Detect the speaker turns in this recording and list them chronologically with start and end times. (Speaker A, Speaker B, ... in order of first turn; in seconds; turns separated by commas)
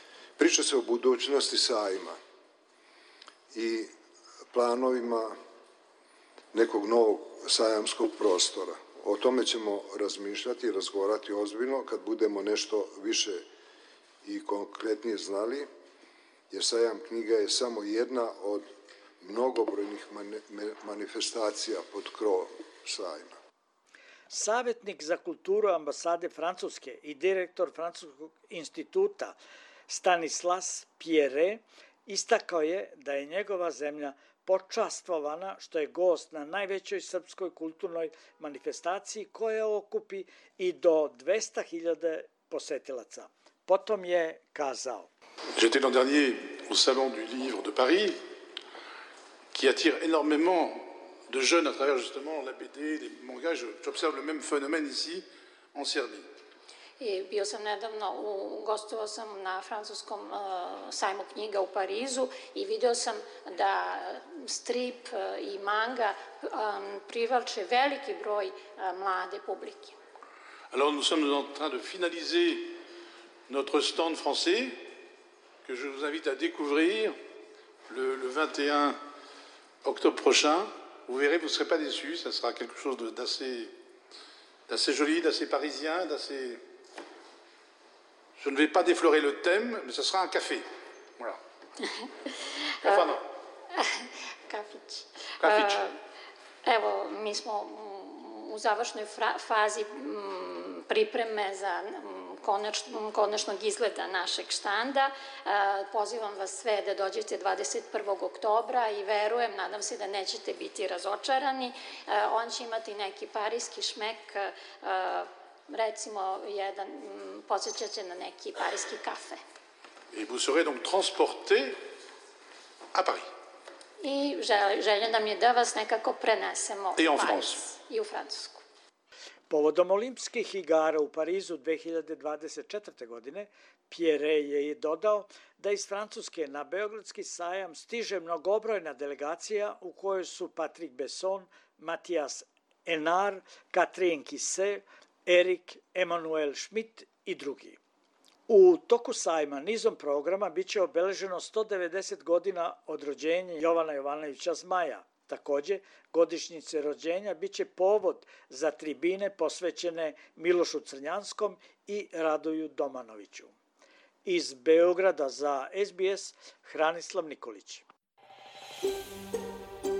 Speaker A: 0.4-2.2, Speaker A: 3.5-3.9, Speaker A: 4.5-5.4, Speaker A: 6.5-13.4, Speaker A: 14.2-15.7, Speaker A: 16.5-18.7, Speaker A: 19.2-23.3, Speaker B: 24.3-29.3, Speaker B: 29.9-45.1, Speaker C: 45.5-48.2, Speaker C: 49.5-56.2, Speaker D: 57.0-69.9, Speaker C: 70.7-72.8, Speaker C: 73.5-74.9, Speaker C: 75.6-77.2, Speaker C: 77.9-79.0, Speaker C: 79.8-83.7, Speaker C: 84.7-86.6, Speaker C: 88.4-90.7, Speaker D: 92.8-93.2, Speaker C: 92.8-93.2, Speaker D: 93.8-95.9, Speaker C: 95.4-95.8, Speaker D: 96.6-119.4, Speaker C: 120.1-121.8, Speaker C: 122.9-123.3, Speaker D: 124.0-128.6, Speaker C: 127.0-127.6, Speaker B: 129.5-147.8, Speaker B: 148.5-163.5, Speaker B: 164.2-167.8